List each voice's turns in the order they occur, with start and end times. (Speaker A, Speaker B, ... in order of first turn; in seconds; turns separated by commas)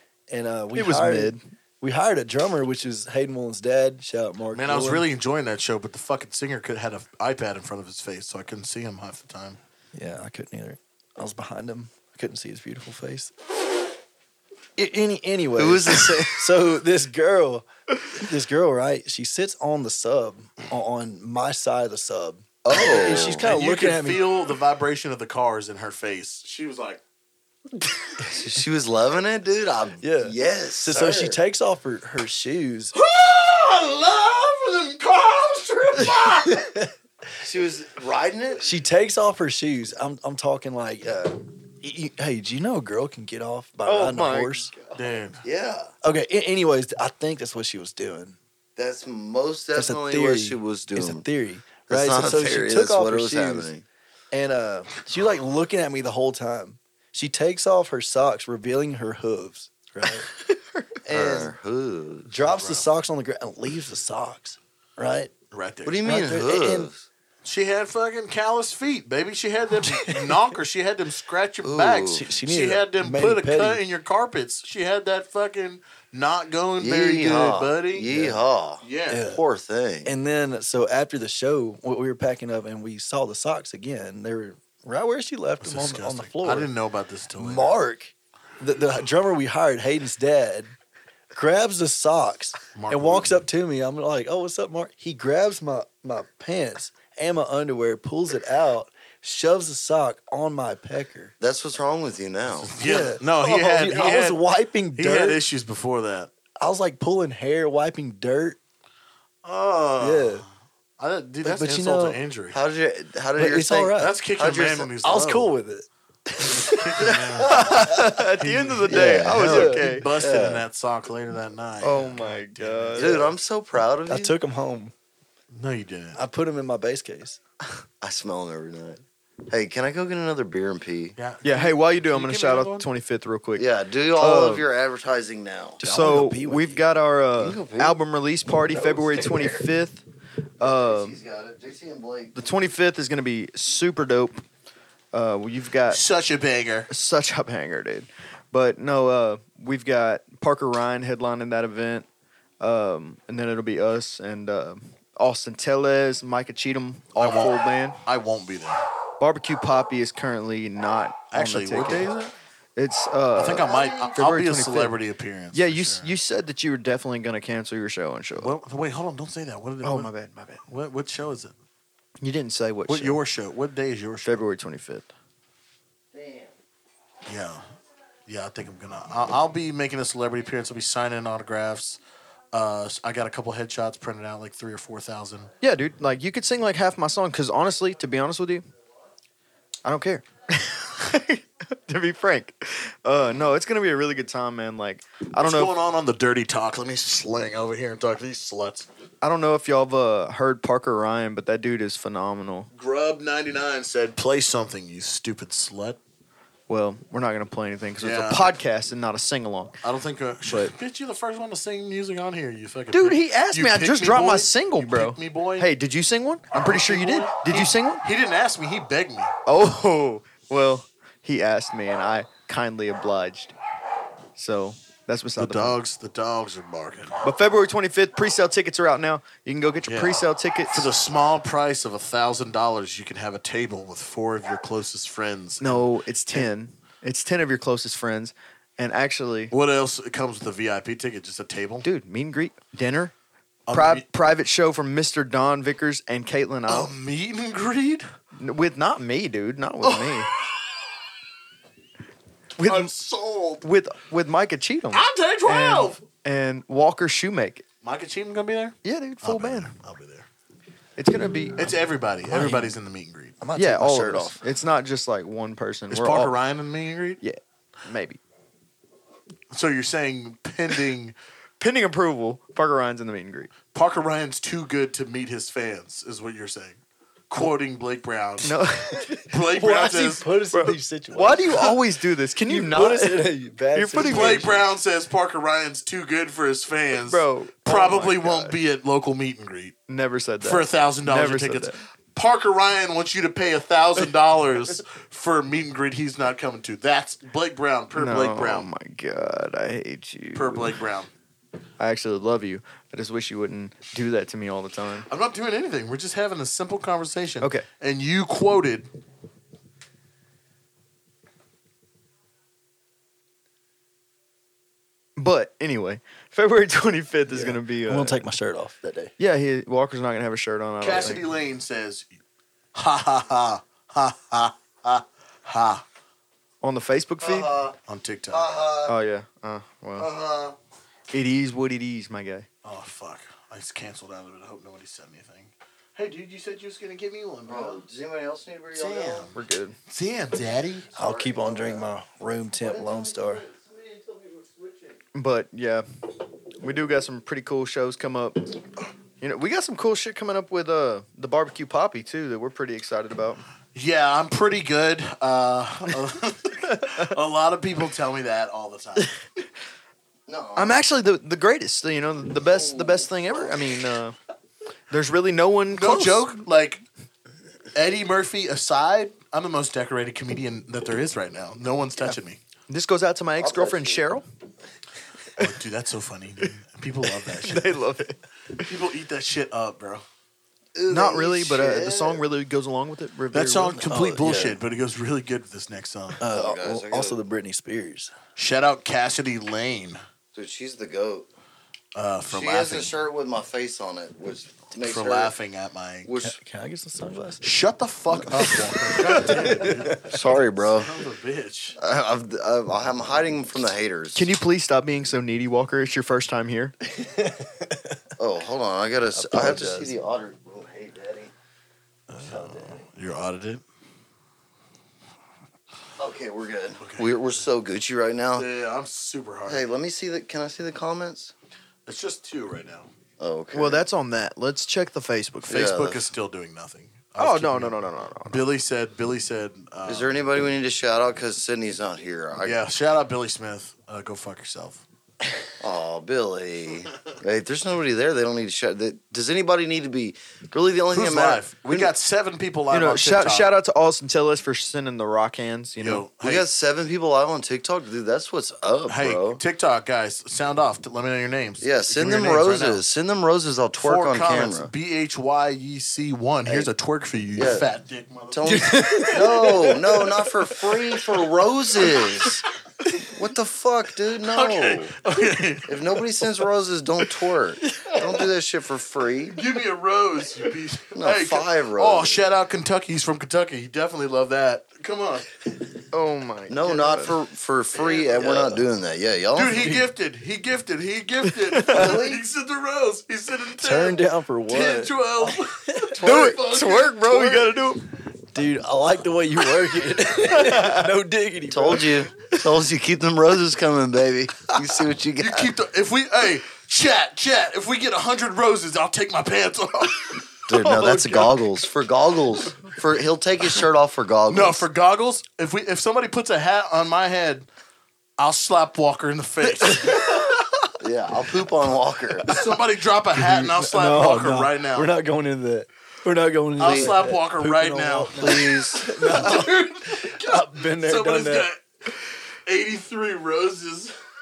Speaker A: 0.3-5.0, Speaker B: 0.7-1.4, Speaker C: 4.5-9.6, Speaker A: 9.9-13.3, Speaker A: 14.8-24.2, Speaker D: 15.5-16.6, Speaker D: 22.6-23.5, Speaker C: 23.0-27.0, Speaker D: 28.2-31.4, Speaker A: 30.0-32.9, Speaker C: 32.9-36.7, Speaker D: 37.4-38.6, Speaker A: 38.6-44.7, Speaker B: 43.8-44.7, Speaker C: 44.9-45.4, Speaker D: 45.4-45.9, Speaker A: 46.0-48.4, Speaker D: 48.8-51.2, Speaker A: 49.8-53.7, Speaker D: 51.9-53.8, Speaker A: 54.3-60.3, Speaker A: 61.0-61.5, Speaker D: 61.1-62.3, Speaker A: 62.3-65.3, Speaker C: 62.4-62.9, Speaker C: 65.5-66.1, Speaker D: 65.8-67.0, Speaker A: 66.0-66.9, Speaker C: 67.4-78.1, Speaker A: 69.8-70.4, Speaker D: 71.6-72.3, Speaker A: 72.1-73.8, Speaker D: 76.8-80.1, Speaker A: 78.1-78.4, Speaker C: 78.8-79.3, Speaker A: 79.1-79.4, Speaker A: 80.0-86.7, Speaker C: 85.6-87.8, Speaker A: 87.4-90.7, Speaker A: 91.3-101.3, Speaker C: 92.7-93.4, Speaker D: 101.4-102.7, Speaker C: 102.6-104.4, Speaker A: 102.8-105.4, Speaker C: 104.9-106.3, Speaker A: 106.6-108.6, Speaker C: 109.4-110.5, Speaker A: 110.0-110.4, Speaker C: 111.0-112.6, Speaker A: 111.4-112.2, Speaker D: 112.5-114.9, Speaker A: 113.4-114.1, Speaker C: 114.0-115.5, Speaker A: 115.0-115.8, Speaker A: 116.4-117.1, Speaker C: 116.6-123.3, Speaker B: 117.4-120.0, Speaker D: 118.9-120.7, Speaker A: 119.2-119.8, Speaker B: 121.8-123.2, Speaker D: 123.0-124.3, Speaker A: 124.1-124.9, Speaker C: 125.5-126.2, Speaker A: 126.1-127.4, Speaker D: 128.0-131.2, Speaker C: 131.2-132.9, Speaker B: 131.4-134.6, Speaker D: 133.6-135.8, Speaker A: 135.8-136.8, Speaker B: 135.8-140.0, Speaker D: 137.4-138.0, Speaker D: 138.7-139.6, Speaker B: 140.6-141.2, Speaker D: 140.6-142.4, Speaker B: 142.3-144.4, Speaker B: 145.1-146.0, Speaker C: 145.9-146.9, Speaker B: 146.9-152.1, Speaker B: 152.6-158.0, Speaker C: 157.2-158.8, Speaker B: 159.2-162.1, Speaker C: 161.3-162.3, Speaker B: 162.8-164.9, Speaker C: 163.3-166.1, Speaker D: 163.7-164.1, Speaker B: 165.5-168.5, Speaker C: 168.3-170.1, Speaker B: 169.8-170.6, Speaker C: 170.7-171.5, Speaker B: 172.2-173.2, Speaker C: 172.9-174.4, Speaker B: 174.2-175.1, Speaker D: 176.1-176.5, Speaker C: 177.2-177.6, Speaker C: 178.3-182.0, Speaker C: 182.5-185.5, Speaker B: 185.6-188.6, Speaker B: 189.8-195.7, Speaker C: 195.4-198.9, Speaker B: 199.2-202.7, Speaker C: 202.7-206.0, Speaker B: 206.7-209.8, Speaker C: 208.0-208.5, Speaker C: 209.8-215.7, Speaker B: 210.4-210.7, Speaker B: 212.9-218.0, Speaker C: 216.5-219.3, Speaker B: 219.4-223.5, Speaker B: 224.3-225.8, Speaker C: 225.4-227.2, Speaker B: 227.2-230.9, Speaker C: 229.9-236.5, Speaker B: 235.6-239.5, Speaker C: 239.5-241.8, Speaker B: 241.8-243.1, Speaker C: 243.7-244.0, Speaker B: 243.7-246.9, Speaker C: 246.7-248.1, Speaker B: 248.3-250.3, Speaker C: 249.8-250.7, Speaker B: 252.6-252.9, Speaker C: 252.6-253.6, Speaker B: 253.6-257.6, Speaker C: 254.9-256.0, Speaker C: 257.8-260.2, Speaker B: 258.8-259.7, Speaker B: 261.0-261.7, Speaker C: 261.6-263.3, Speaker B: 262.3-262.7, Speaker A: 263.4-264.4, Speaker B: 263.6-266.3, Speaker C: 265.9-267.2, Speaker B: 267.2-268.2, Speaker C: 269.5-271.1, Speaker B: 271.6-273.5, Speaker C: 273.7-278.6, Speaker B: 278.4-279.3, Speaker C: 279.3-280.3, Speaker A: 279.4-281.7, Speaker B: 280.5-284.5, Speaker A: 282.4-284.6, Speaker C: 284.0-289.7, Speaker B: 287.0-288.6, Speaker B: 289.9-291.8, Speaker C: 290.4-298.7, Speaker B: 297.9-300.8, Speaker C: 300.3-301.1, Speaker B: 301.8-305.1, Speaker C: 305.1-308.9, Speaker B: 307.4-307.6, Speaker B: 315.2-318.2, Speaker A: 317.3-319.1, Speaker B: 319.2-321.2, Speaker C: 320.8-322.1, Speaker C: 322.7-325.8, Speaker B: 326.6-327.5, Speaker D: 327.2-327.8, Speaker C: 327.9-328.4, Speaker D: 328.3-328.9, Speaker B: 328.9-330.1, Speaker D: 330.0-330.6, Speaker B: 331.1-332.5, Speaker C: 332.6-337.8, Speaker D: 337.4-339.3, Speaker C: 338.7-339.4, Speaker B: 339.3-339.7, Speaker C: 339.9-340.9, Speaker D: 340.9-341.9, Speaker A: 340.9-343.4, Speaker D: 342.6-344.9, Speaker B: 345.1-345.8, Speaker B: 346.6-348.6, Speaker B: 349.2-353.4, Speaker C: 353.7-359.1, Speaker B: 356.7-357.1, Speaker D: 360.3-360.8, Speaker B: 360.6-364.1, Speaker D: 362.4-363.7, Speaker B: 364.9-366.2, Speaker C: 365.7-366.8, Speaker C: 367.7-372.4, Speaker B: 372.7-374.2, Speaker D: 373.4-374.0, Speaker C: 375.4-377.7, Speaker B: 377.4-378.7, Speaker C: 378.6-380.0, Speaker D: 380.7-382.2, Speaker B: 380.9-383.8, Speaker C: 383.3-386.2, Speaker A: 383.8-384.6, Speaker A: 386.2-388.1, Speaker D: 386.3-387.2, Speaker C: 388.4-390.0, Speaker D: 390.3-391.3, Speaker C: 391.9-392.9, Speaker D: 392.3-395.3, Speaker C: 394.8-396.1, Speaker D: 396.0-396.4, Speaker A: 396.2-397.4, Speaker C: 397.4-401.8, Speaker A: 399.0-399.9, Speaker D: 400.0-400.9, Speaker D: 401.8-404.3, Speaker B: 404.1-406.7, Speaker A: 407.0-407.8, Speaker D: 408.2-411.3, Speaker A: 409.1-409.9, Speaker C: 412.1-413.6, Speaker A: 412.2-412.8, Speaker D: 416.0-418.5, Speaker C: 416.8-417.2, Speaker C: 418.4-419.6, Speaker D: 419.4-421.3, Speaker C: 421.9-422.9, Speaker D: 423.2-423.9, Speaker B: 423.5-425.7, Speaker D: 425.5-426.1, Speaker C: 425.5-430.1, Speaker B: 427.2-428.4, Speaker D: 429.9-432.6, Speaker C: 432.4-434.8, Speaker D: 435.6-441.9, Speaker C: 440.9-443.5, Speaker B: 442.7-446.0, Speaker C: 445.8-446.4, Speaker D: 446.2-449.4, Speaker C: 448.9-452.8, Speaker D: 451.6-454.7, Speaker C: 453.8-459.4, Speaker D: 456.4-456.7, Speaker D: 457.3-457.7, Speaker D: 458.3-462.4, Speaker A: 458.4-460.1, Speaker D: 463.1-465.0, Speaker C: 464.2-465.9, Speaker D: 465.7-469.4, Speaker C: 469.3-475.3, Speaker D: 470.9-472.2, Speaker B: 475.9-477.1, Speaker D: 476.5-479.8, Speaker C: 477.7-478.4, Speaker A: 478.2-478.5, Speaker C: 479.3-487.5, Speaker B: 481.3-481.6, Speaker D: 481.7-482.2, Speaker A: 483.6-486.0, Speaker B: 486.0-487.9, Speaker A: 488.3-492.0, Speaker B: 490.3-490.9, Speaker D: 491.5-495.5, Speaker C: 495.2-501.3, Speaker D: 500.5-504.6, Speaker B: 500.8-501.2, Speaker C: 504.3-507.5, Speaker C: 508.2-510.3, Speaker A: 509.7-510.1, Speaker D: 510.8-512.4, Speaker C: 512.3-514.9, Speaker A: 513.1-521.5, Speaker C: 516.6-521.6, Speaker D: 516.6-517.0, Speaker D: 518.2-519.0, Speaker C: 522.5-523.9